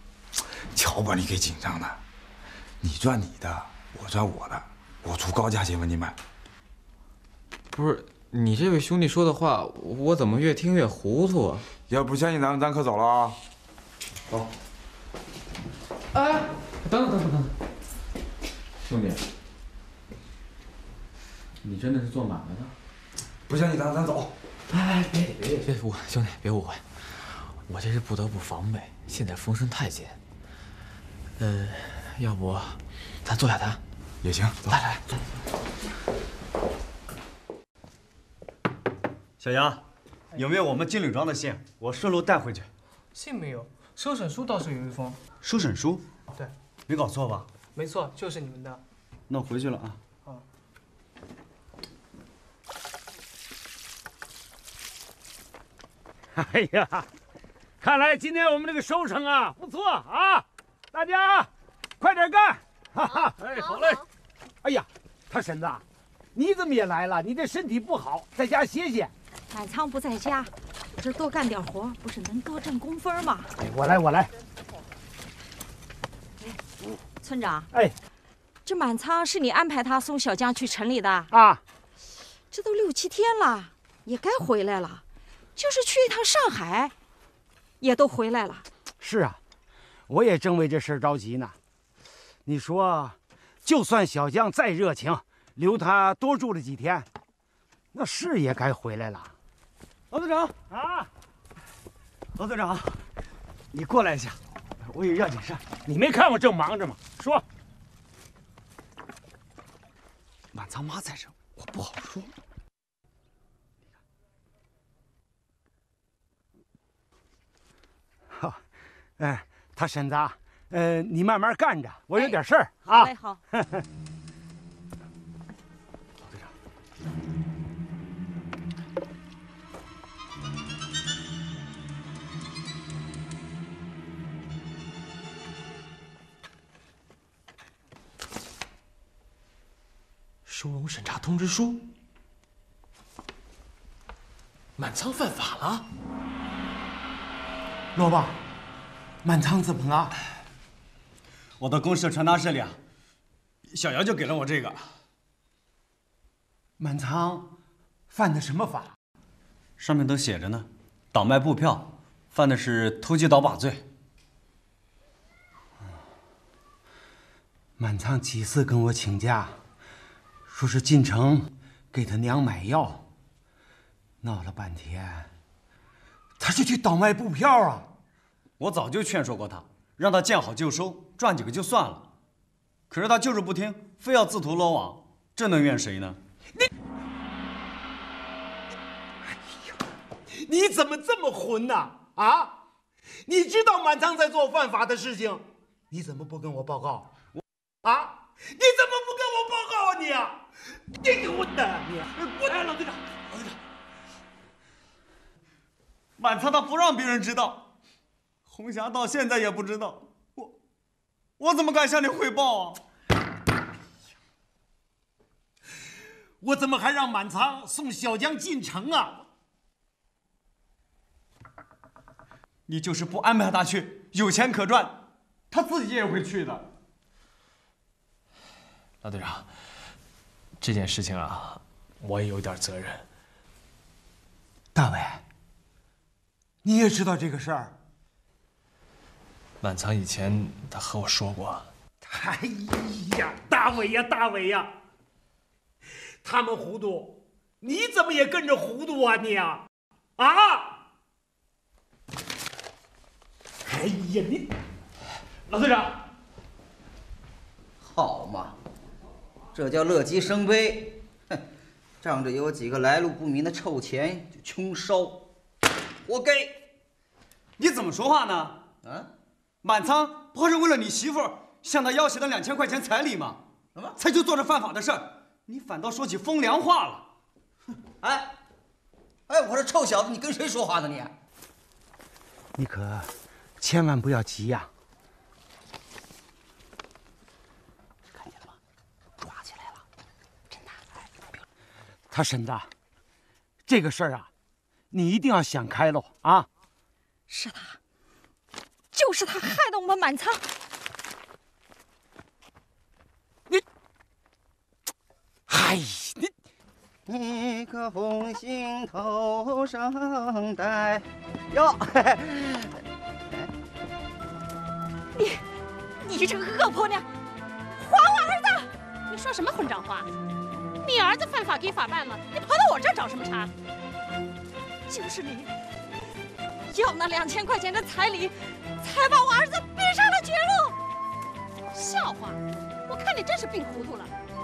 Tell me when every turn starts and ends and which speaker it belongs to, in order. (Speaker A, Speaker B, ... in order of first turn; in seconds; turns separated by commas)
Speaker A: 0.7-2.0, Speaker A: 2.8-6.2, Speaker B: 7.7-11.7, Speaker A: 11.9-13.4, Speaker B: 16.8-17.5, Speaker B: 18.9-19.2, Speaker B: 21.6-22.7, Speaker A: 23.5-24.3, Speaker B: 24.7-30.2, Speaker B: 31.4-33.8, Speaker A: 34.2-34.8, Speaker B: 34.7-35.0, Speaker C: 39.4-39.8, Speaker C: 40.4-42.7, Speaker D: 43.1-45.2, Speaker C: 45.4-46.0, Speaker C: 46.9-47.5, Speaker D: 47.8-48.8, Speaker C: 49.3-50.0, Speaker E: 56.4-57.1, Speaker E: 57.8-61.5, Speaker E: 62.0-63.9, Speaker E: 64.6-65.8, Speaker E: 66.3-69.1, Speaker F: 69.5-73.5, Speaker E: 73.6-74.3, Speaker F: 77.2-77.7, Speaker F: 78.7-81.3, Speaker E: 81.3-81.6, Speaker F: 82.5-85.0, Speaker F: 85.6-86.9, Speaker F: 87.8-88.7, Speaker E: 89.0-89.4, Speaker E: 90.1-91.6, Speaker E: 92.5-97.1, Speaker E: 97.9-99.3, Speaker C: 100.1-100.6, Speaker E: 100.7-101.1, Speaker C: 102.4-103.0, Speaker C: 103.7-105.7, Speaker E: 105.8-107.4, Speaker C: 110.5-111.3, Speaker E: 118.3-118.6, Speaker E: 119.2-123.8, Speaker G: 122.8-123.4, Speaker B: 140.5-141.8, Speaker B: 144.8-145.8, Speaker E: 147.9-148.4, Speaker E: 149.2-150.1, Speaker C: 151.6-152.8, Speaker C: 153.7-154.9, Speaker E: 156.8-157.6, Speaker E: 158.1-159.0, Speaker C: 159.8-163.9, Speaker E: 167.8-169.6, Speaker E: 170.5-173.0, Speaker E: 174.2-175.3, Speaker E: 176.4-177.9, Speaker C: 178.6-182.1, Speaker C: 182.9-186.2, Speaker E: 190.3-192.6, Speaker E: 193.3-197.1, Speaker E: 197.8-200.4, Speaker E: 201.0-202.6, Speaker C: 202.2-203.6, Speaker C: 206.2-207.7, Speaker C: 208.5-210.6, Speaker C: 211.4-212.8, Speaker E: 216.4-219.2, Speaker C: 222.7-226.7, Speaker H: 229.0-229.5, Speaker H: 230.6-233.0, Speaker E: 234.8-235.2, Speaker E: 236.6-237.8, Speaker H: 239.6-241.7, Speaker E: 242.1-244.7, Speaker E: 246.2-249.6, Speaker E: 250.2-250.8, Speaker E: 253.7-254.5, Speaker E: 255.5-255.9, Speaker I: 257.8-258.6, Speaker I: 259.5-261.4, Speaker I: 262.0-265.3, Speaker I: 266.1-266.6, Speaker C: 267.6-268.8, Speaker I: 268.8-269.1, Speaker C: 269.6-273.4, Speaker C: 274.0-277.1, Speaker C: 278.0-278.3, Speaker I: 279.3-281.1, Speaker E: 282.6-284.7, Speaker I: 288.2-288.5, Speaker I: 289.2-289.8, Speaker E: 292.1-292.7, Speaker E: 293.7-294.3, Speaker E: 294.9-296.5, Speaker F: 297.3-297.8, Speaker F: 298.9-300.4, Speaker E: 305.5-306.3, Speaker I: 307.1-312.7, Speaker G: 316.1-317.0, Speaker G: 317.8-318.7, Speaker J: 319.1-320.1, Speaker J: 320.8-323.5, Speaker G: 326.7-328.9, Speaker G: 329.4-330.7, Speaker J: 331.7-334.1